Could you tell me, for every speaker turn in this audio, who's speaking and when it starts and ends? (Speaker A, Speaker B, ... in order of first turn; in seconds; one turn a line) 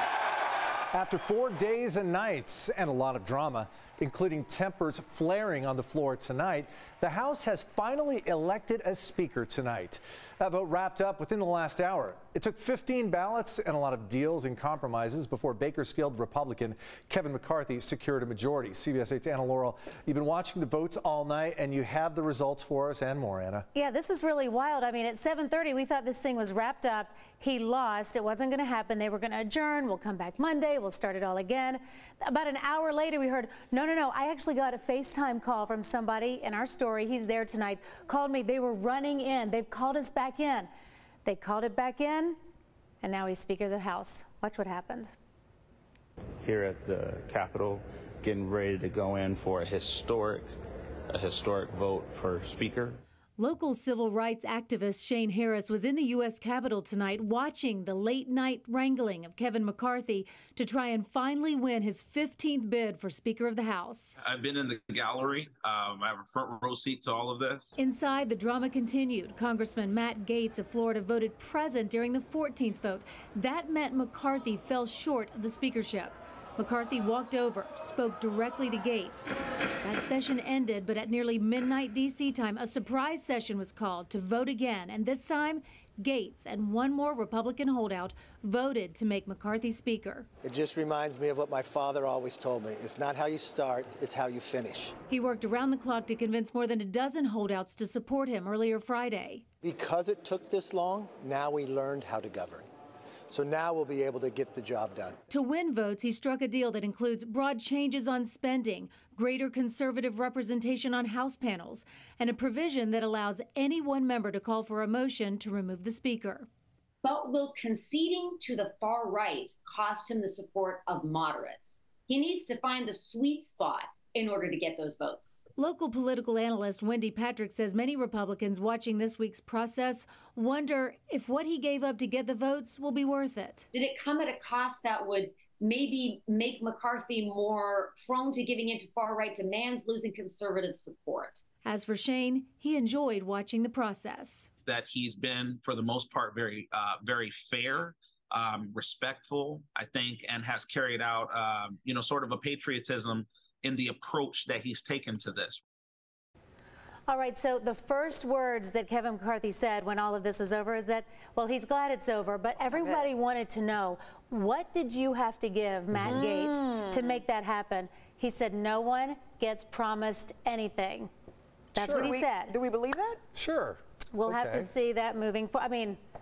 Speaker A: 0.9-23.7
Speaker B: 23.7-40.7
Speaker B: 41.2-42.4
Speaker B: 43.0-45.1
Speaker C: 46.4-50.5
Speaker C: 51.1-53.0
Speaker D: 53.4-64.2
Speaker E: 64.2-67.8
Speaker D: 67.8-79.3
Speaker D: 79.8-90.3
Speaker F: 90.4-94.9
Speaker D: 95.1-99.4
Speaker F: 99.6-102.6
Speaker F: 103.3-105.2
Speaker D: 105.3-116.5
Speaker G: 117.0-125.4
Speaker D: 125.5-133.7
Speaker G: 133.7-141.4
Speaker D: 141.6-144.5
Speaker E: 144.7-155.6
Speaker B: 157.1-171.1
Speaker A: 165.9-166.2
Speaker H: 166.2-167.2
Speaker B: 171.7-172.6
Speaker A: 171.8-172.1
Speaker H: 172.0-173.2
Speaker A: 173.3-174.7
Speaker B: 174.1-176.0